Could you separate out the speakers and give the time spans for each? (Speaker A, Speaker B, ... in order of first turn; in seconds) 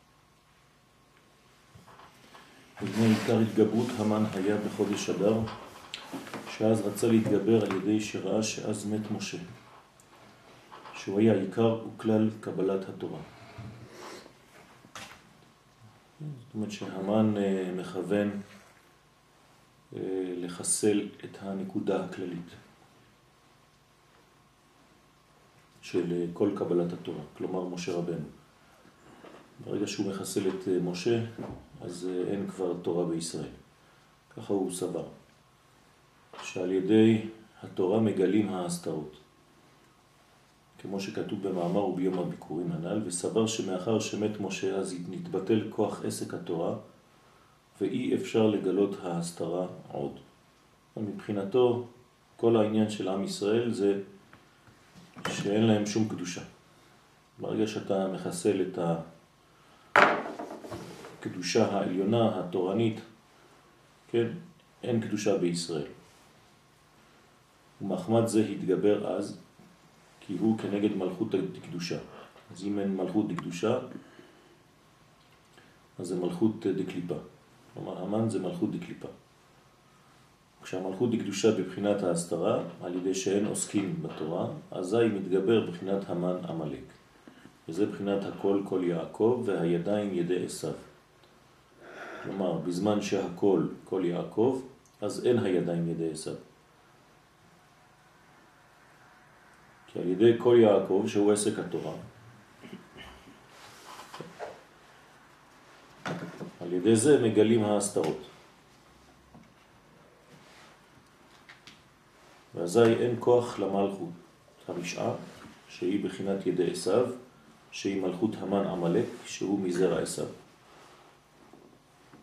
Speaker A: 2.8-5.5, 6.5-9.4, 10.9-13.2, 16.2-18.4, 19.9-22.6, 25.8-28.3, 29.6-31.2, 31.8-33.5, 34.3-35.1, 36.4-39.2, 40.8-46.8, 47.8-50.2, 50.9-51.9, 52.4-54.0, 55.2-56.5, 57.4-59.0, 61.2-63.0, 64.1-65.9, 67.8-69.4, 70.2-73.8, 76.0-77.2, 77.7-79.1, 80.6-86.9, 87.7-90.8, 92.2-96.4, 99.9-102.0, 106.6-108.3, 112.5-117.1, 117.7-120.3